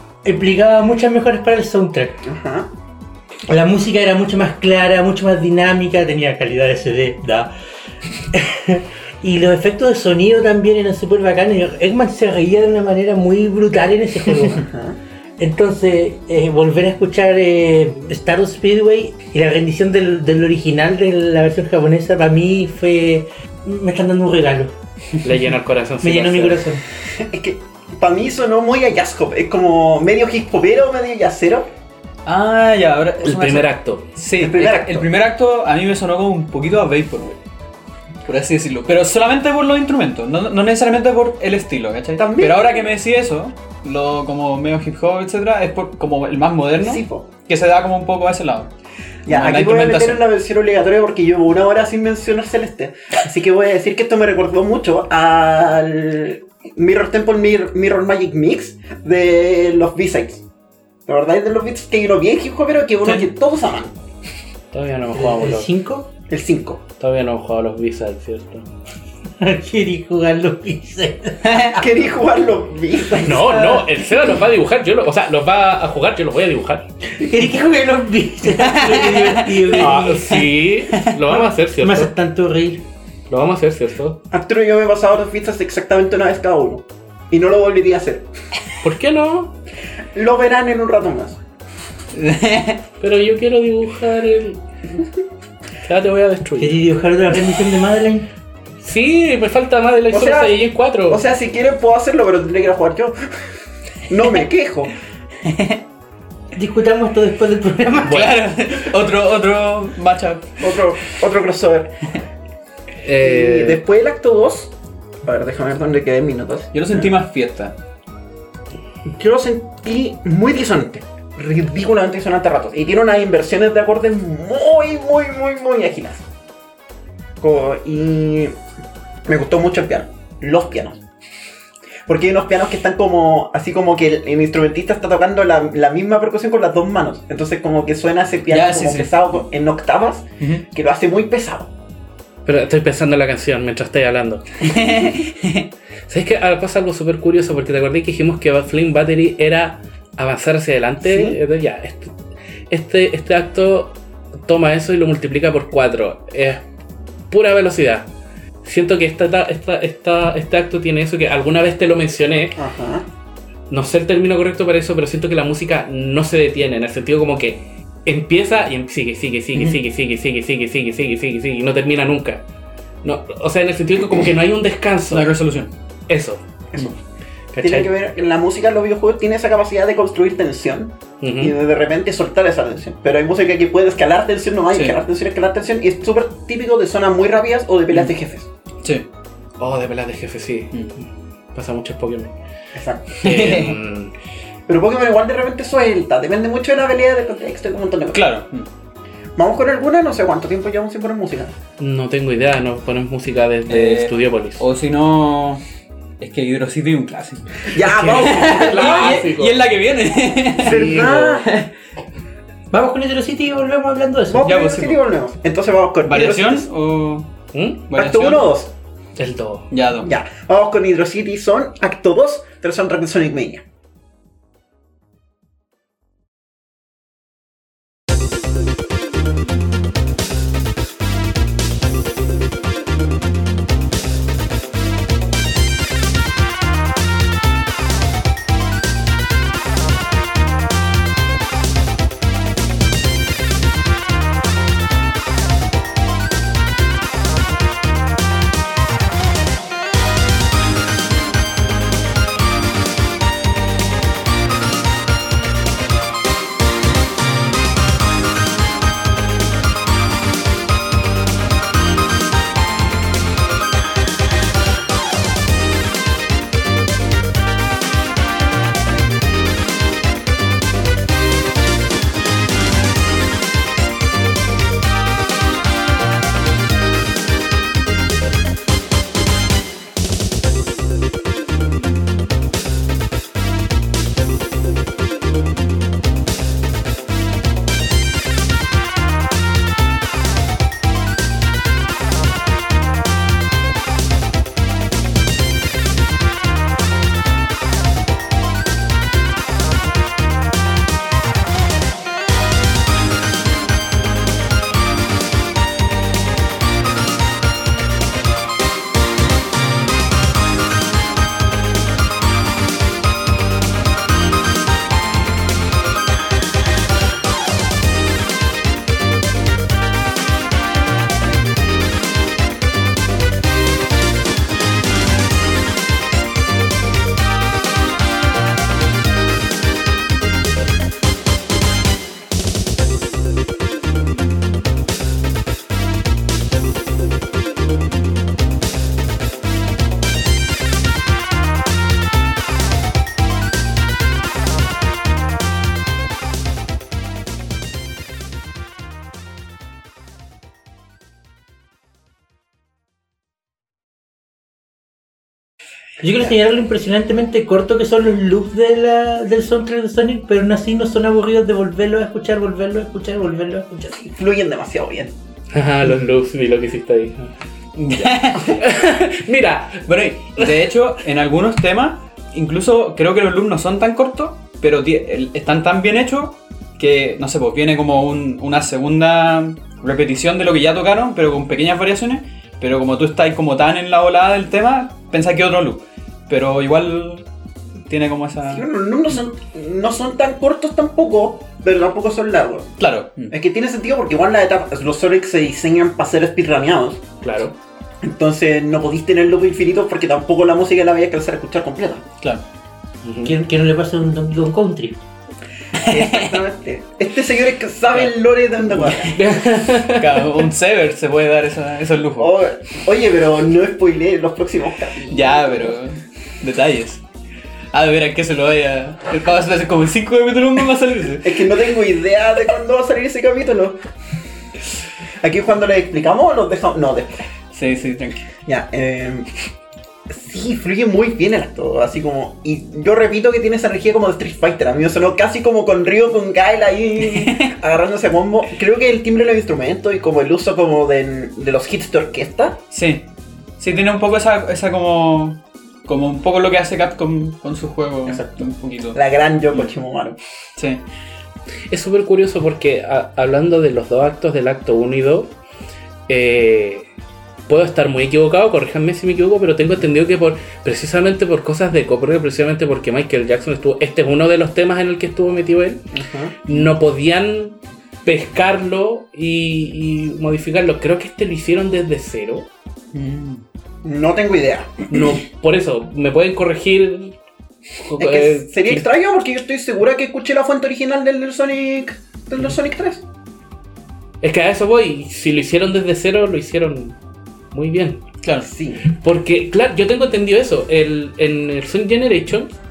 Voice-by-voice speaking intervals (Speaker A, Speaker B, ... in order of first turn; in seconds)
Speaker A: 0.2-2.2, 3.5-7.5, 8.2-14.7, 15.4-24.7, 26.0-26.8, 65.2-66.1, 69.4-71.5, 77.2-80.6, 81.3-82.8, 96.6-98.3, 106.5-108.2, 212.7-214.5, 356.0-363.9, 403.2-405.0
Speaker B: 2.2-2.7, 14.6-15.0, 27.1-31.7, 34.3-35.1, 42.2-42.9, 46.8-47.3, 49.2-60.4, 61.1-64.0, 66.3-66.8, 71.7-73.8, 84.3-88.3, 90.1-91.4, 100.1-104.9, 110.6-112.0, 113.2-114.7, 115.2-117.1, 119.0-126.2, 127.4-128.6, 129.2-131.0, 132.1-141.7, 151.0-151.4, 162.6-163.1, 177.6-188.5, 192.7-193.6, 194.7-198.2, 199.4-201.5, 207.7-209.3, 210.6-211.5, 214.3-216.6, 217.9-218.7, 220.0-223.6, 363.9-365.1, 388.5-392.7, 393.3-397.0, 398.0-402.0, 405.7-409.2, 412.2-415.7, 421.2-423.8, 425.2-427.2, 428.4-429.3, 430.1-442.6, 448.1-450.2, 465.9-466.4, 473.8-475.0, 478.0-483.0, 488.4-488.8
Speaker C: 25.2-26.6, 33.2-34.1, 64.7-65.7, 67.0-68.7, 73.2-76.9, 79.7-82.1, 83.3-84.2, 88.8-89.5, 93.0-95.0, 95.8-96.8, 98.8-101.2, 108.1-108.4, 113.0-113.8, 142.4-144.7, 146.1-152.1, 152.7-156.6, 157.3-158.1, 158.6-162.6, 163.7-172.4, 173.0-175.3, 176.1-176.4, 177.5-177.9, 181.2-181.5, 189.6-192.3, 193.2-194.1, 201.8-204.6, 207.8-209.6, 210.6-211.4, 217.5-217.8, 219.2-219.7, 365.5-367.3, 368.4-369.9, 397.2-397.5, 403.0-403.3, 409.1-410.2, 451.7-455.3, 456.1-456.9, 457.5-465.9, 466.4-472.5, 474.9-477.2, 477.8-478.9, 484.2-487.0, 487.5-488.0, 488.9-492.5
Speaker D: 32.2-37.4, 38.2-48.7, 49.3-50.2, 71.4-71.8, 78.5-80.0, 92.1-92.8, 105.4-105.8, 108.0-110.8, 116.7-117.7, 138.5-139.1, 144.6-145.7, 175.1-175.7, 193.2-193.8, 198.1-198.7, 203.7-205.6, 206.2-211.7, 214.4-215.0, 216.0-217.3, 217.9-218.5, 219.7-220.1, 367.8-368.6, 369.9-387.2, 387.9-388.6, 392.8-393.3, 405.8-406.4, 407.9-409.2, 409.9-412.3, 415.1-417.0, 417.7-421.5, 427.5-428.2, 437.1-437.5, 442.7-443.1, 443.6-449.0, 450.6-450.8, 472.9-473.4